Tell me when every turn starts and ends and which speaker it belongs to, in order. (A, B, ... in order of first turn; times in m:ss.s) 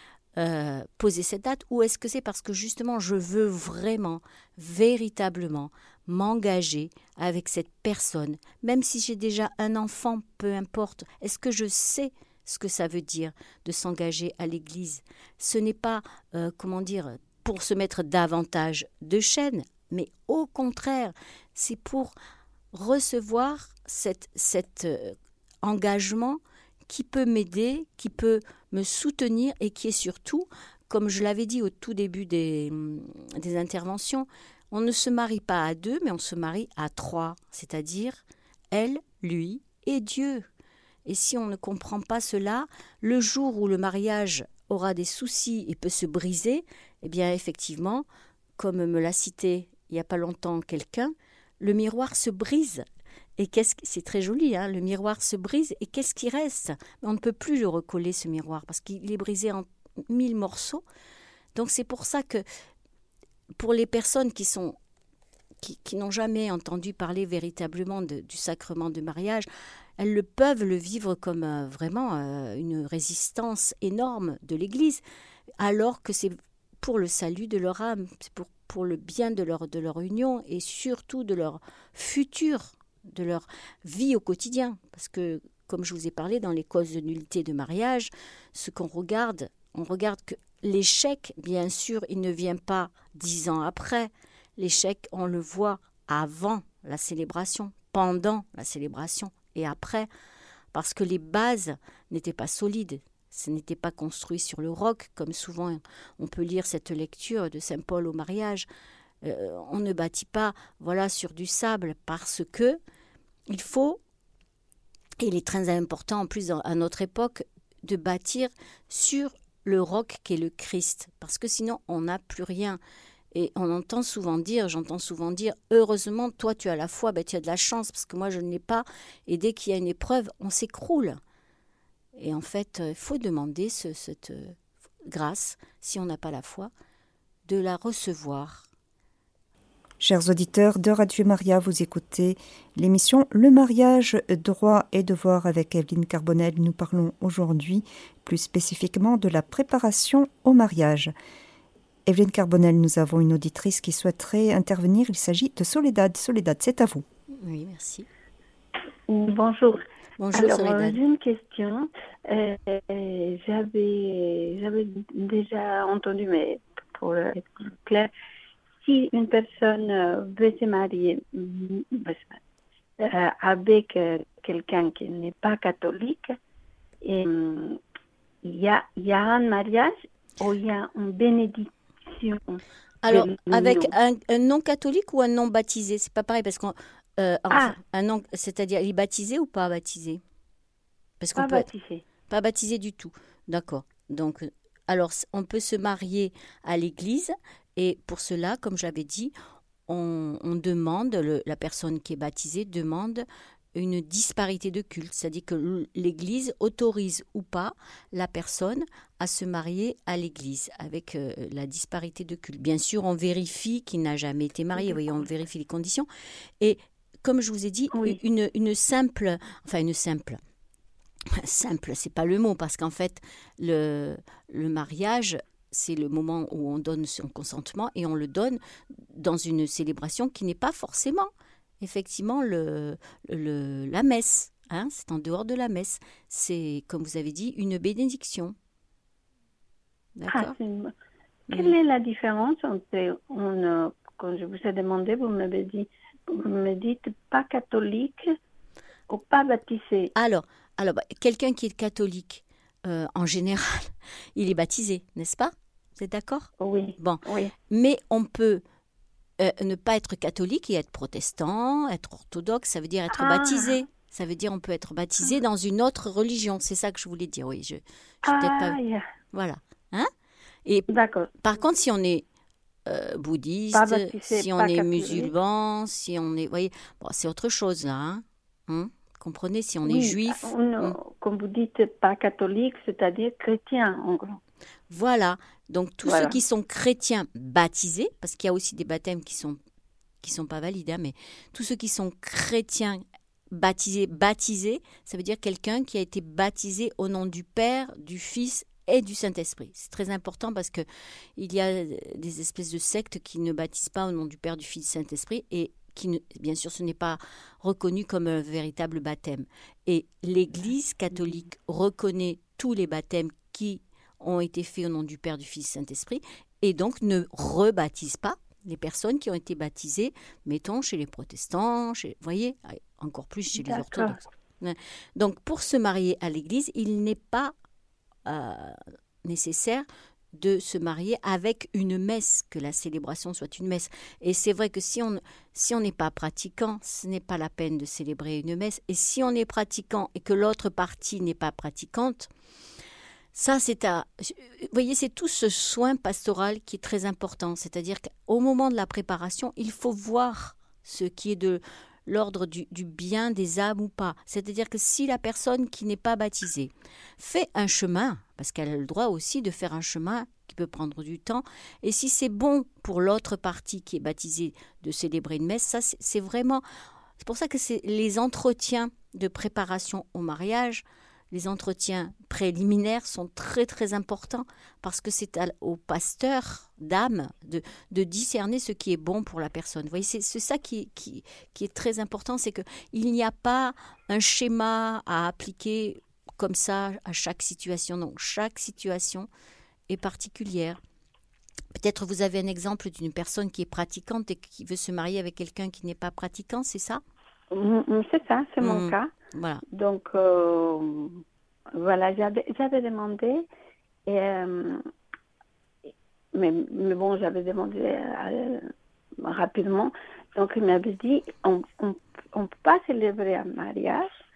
0:00.4-0:22.1 A
0:22.7-0:40.5 A
0:41.1-0:48.1 A
0:48.6-0:52.8 A
0:53.4-1:00.8 A
1:01.6-1:02.4 A
1:03.6-1:04.8 A
1:05.6-1:09.5 A
1:10.0-1:15.0 A
1:15.6-1:40.1 A
1:40.7-1:48.7 A
1:49.2-1:52.8 A
1:53.5-1:54.0 A
1:55.2-2:02.8 A
2:03.3-2:11.2 A
2:12.2-2:16.7 A
2:17.5-2:18.7 A
2:20.0-2:31.1 B
2:32.1-2:37.0 B
2:37.4-2:38.1 A
2:39.1-2:48.1 C
2:40.2-2:41.0 A
2:48.8-2:52.4 C
2:53.0-2:56.3 C
2:57.0-2:57.8 C
2:58.4-3:03.9 C
3:03.0-3:10.2 A
3:07.5-3:07.8 C
3:11.2-3:11.7 A
3:11.4-3:12.0 C
3:12.3-3:19.3 A
3:19.9-3:36.1 A
3:36.6-3:40.4 A
3:41.3-3:51.3 A
3:51.8-3:58.5 A
4:00.2-4:00.6 A
4:00.3-4:00.9 C
4:01.5-4:01.8 A
4:01.5-4:08.4 C
4:09.1-4:10.1 C
4:10.2-4:18.6 A
4:16.6-4:17.5 C
4:19.4-4:28.8 A
4:23.1-4:23.8 C
4:28.3-4:29.1 C
4:29.3-4:30.1 A
4:30.9-4:31.3 C
4:31.4-4:32.2 A
4:32.9-4:41.0 A
4:33.7-4:35.3 C
4:39.8-4:44.4 C
4:44.9-4:49.6 A
4:46.0-4:46.4 C
4:50.2-5:00.8 A
5:01.4-5:27.5 A
5:23.6-5:24.2 C
5:28.3-5:42.3 A
5:43.3-6:06.6 A
6:07.2-6:29.3 A
6:29.9-6:30.8 A
6:31.7-6:37.0 A
6:37.5-6:39.1 C
6:38.6-6:39.6 A
6:39.7-6:41.2 C
6:41.7-6:43.5 C
6:44.1-6:44.8 C
6:46.3-6:54.1 C